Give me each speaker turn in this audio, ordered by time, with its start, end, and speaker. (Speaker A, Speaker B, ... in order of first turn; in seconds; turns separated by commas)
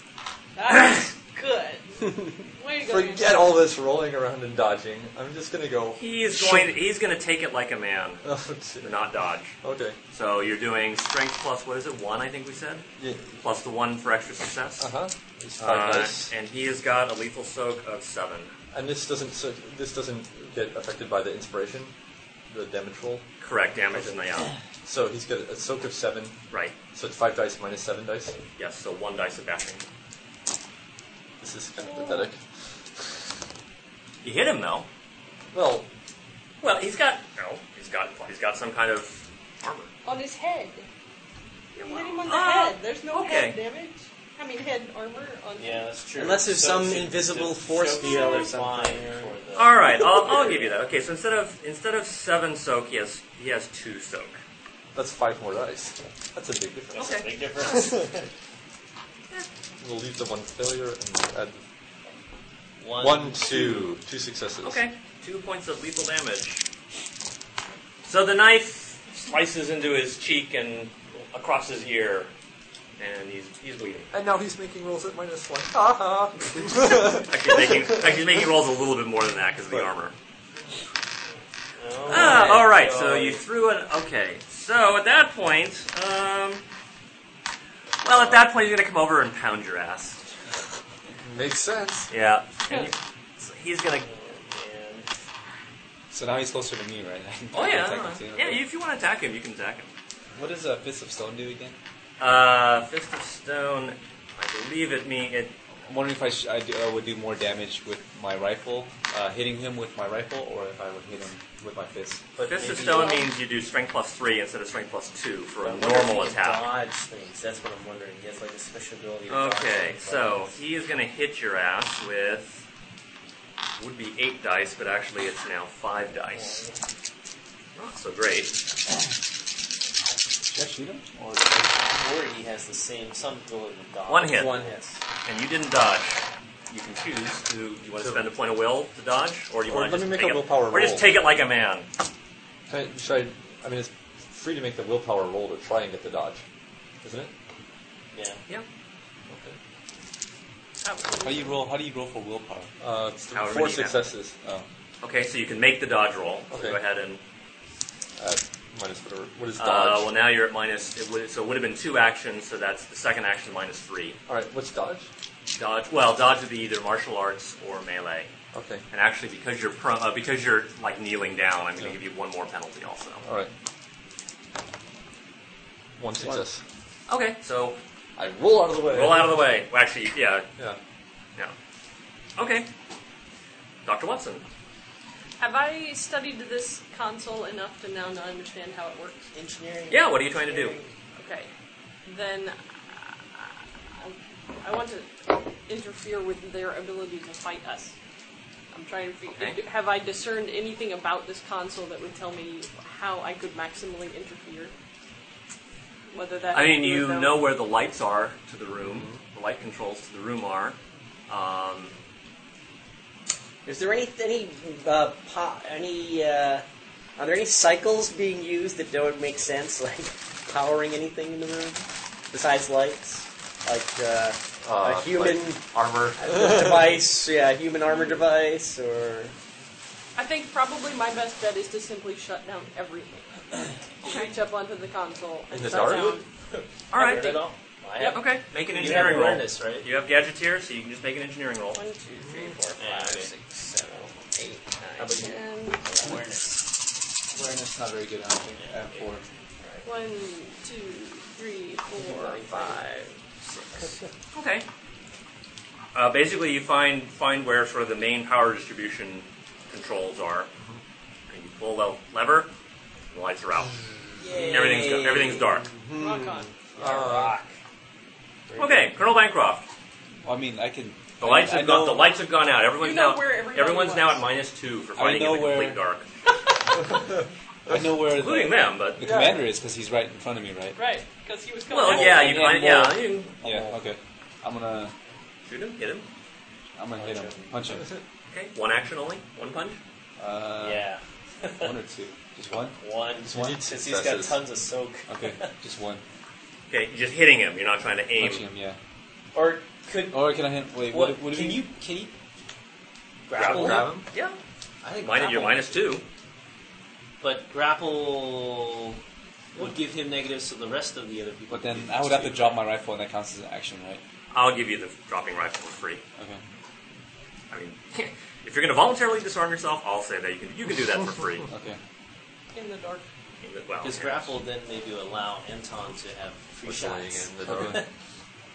Speaker A: 0.6-3.5, Speaker B: 2.8-6.8, Speaker C: 6.0-8.2, Speaker B: 8.2-9.0, Speaker C: 8.8-9.5, Speaker B: 9.6-10.0, Speaker C: 10.1-12.8, Speaker B: 13.0-13.3, Speaker C: 13.4-14.9, Speaker B: 14.8-16.3, Speaker C: 15.6-18.5, Speaker B: 18.7-21.9, Speaker B: 22.5-23.3, Speaker C: 23.4-24.5, Speaker B: 24.8-26.4, Speaker B: 26.9-28.4, Speaker C: 28.6-29.8, Speaker B: 31.4-32.4, Speaker A: 31.8-32.3, Speaker C: 34.2-34.9, Speaker B: 35.5-35.9, Speaker C: 36.6-39.9, Speaker A: 40.0-40.9, Speaker C: 41.8-43.6, Speaker A: 41.8-45.9, Speaker D: 45.6-50.8, Speaker E: 46.1-49.3, Speaker A: 48.0-48.5, Speaker C: 49.5-54.4, Speaker B: 54.9-58.0, Speaker D: 56.9-58.2, Speaker C: 57.0-57.3, Speaker B: 59.8-61.6, Speaker D: 62.8-63.9, Speaker B: 63.0-64.8, Speaker C: 64.6-66.6, Speaker C: 68.0-72.3, Speaker C: 73.0-74.1, Speaker B: 74.1-78.0, Speaker C: 77.2-80.1, Speaker D: 81.8-83.4, Speaker C: 82.1-86.6, Speaker C: 88.0-90.2, Speaker B: 91.2-92.1, Speaker C: 92.1-94.1, Speaker D: 94.0-95.1, Speaker F: 96.1-98.6, Speaker C: 97.5-99.9, Speaker F: 100.3-101.8, Speaker C: 102.2-105.5, Speaker F: 105.9-112.2, Speaker D: 112.3-113.2, Speaker C: 112.4-116.7, Speaker A: 112.6-113.3, Speaker D: 115.6-120.5, Speaker C: 119.3-122.6, Speaker C: 123.8-126.6, Speaker D: 126.3-126.8, Speaker C: 127.7-128.6, Speaker F: 130.5-131.8, Speaker D: 131.8-134.8, Speaker C: 134.1-134.6, Speaker E: 134.2-134.9, Speaker C: 135.2-141.9, Speaker B: 139.7-141.2, Speaker B: 142.7-146.4, Speaker B: 147.0-147.3, Speaker D: 148.1-148.4, Speaker B: 149.3-149.6, Speaker A: 150.8-151.4, Speaker F: 151.2-152.7, Speaker B: 152.8-154.3, Speaker C: 153.3-154.0, Speaker C: 155.0-157.2, Speaker B: 156.5-156.8, Speaker B: 158.2-160.1, Speaker C: 159.6-164.2, Speaker B: 164.3-165.1, Speaker C: 165.6-168.3, Speaker B: 168.5-168.8, Speaker C: 168.9-173.2, Speaker B: 173.2-173.5, Speaker B: 176.0-176.6, Speaker C: 177.1-177.8, Speaker B: 178.2-179.4, Speaker C: 178.9-180.5, Speaker C: 182.4-182.7, Speaker C: 183.8-184.4, Speaker A: 185.4-189.3, Speaker E: 189.3-190.9, Speaker C: 189.9-190.8, Speaker A: 191.2-191.5, Speaker A: 192.0-197.9, Speaker A: 198.7-204.7, Speaker C: 199.3-199.6, Speaker A: 206.1-207.4, Speaker C: 206.5-210.8, Speaker B: 208.8-209.2, Speaker C: 211.3-211.9, Speaker E: 213.6-216.6, Speaker E: 217.2-225.6, Speaker B: 224.6-226.9, Speaker E: 226.2-229.3, Speaker A: 230.2-233.2, Speaker A: 234.0-236.2, Speaker B: 235.5-236.2, Speaker D: 235.9-239.8, Speaker C: 236.9-237.4, Speaker A: 237.1-237.3, Speaker A: 238.0-238.2, Speaker C: 238.0-241.8, Speaker A: 241.7-242.6, Speaker E: 242.4-245.4, Speaker D: 242.8-243.3, Speaker D: 245.0-245.3, Speaker A: 245.1-246.3, Speaker D: 245.9-246.5, Speaker F: 247.3-249.2, Speaker D: 248.6-249.8, Speaker A: 249.8-252.8, Speaker E: 252.0-253.9, Speaker C: 254.3-254.6, Speaker C: 255.9-260.5, Speaker C: 261.3-262.5, Speaker C: 263.1-263.7, Speaker A: 264.2-264.9, Speaker E: 264.2-267.4, Speaker C: 264.3-265.7, Speaker A: 265.9-266.5, Speaker B: 266.8-267.4, Speaker E: 268.5-268.9, Speaker C: 268.6-269.6, Speaker F: 270.2-272.1, Speaker C: 271.2-276.1, Speaker A: 272.8-274.2, Speaker F: 274.9-275.8, Speaker F: 277.7-280.8, Speaker C: 278.1-279.0, Speaker B: 279.0-279.4, Speaker A: 280.8-282.4, Speaker C: 281.7-283.7, Speaker F: 281.8-284.9, Speaker C: 285.4-286.1, Speaker F: 286.8-287.9, Speaker D: 286.9-287.6, Speaker C: 288.3-289.8, Speaker F: 290.2-290.9, Speaker D: 290.6-291.8, Speaker F: 291.6-292.8, Speaker D: 292.8-295.5, Speaker B: 293.3-294.4, Speaker F: 293.3-293.5, Speaker F: 295.1-296.0, Speaker C: 296.7-298.4, Speaker F: 298.1-298.8, Speaker D: 299.3-302.1, Speaker F: 300.1-301.7, Speaker D: 303.3-304.0, Speaker C: 303.3-304.4, Speaker B: 303.4-304.1, Speaker D: 304.8-305.9, Speaker C: 305.0-306.0, Speaker D: 307.2-309.0, Speaker D: 309.5-312.6, Speaker F: 311.5-314.0, Speaker C: 314.3-316.0, Speaker C: 317.5-321.5, Speaker F: 321.5-321.8, Speaker A: 322.5-323.0, Speaker C: 323.4-324.3, Speaker D: 323.8-327.9, Speaker B: 326.6-327.8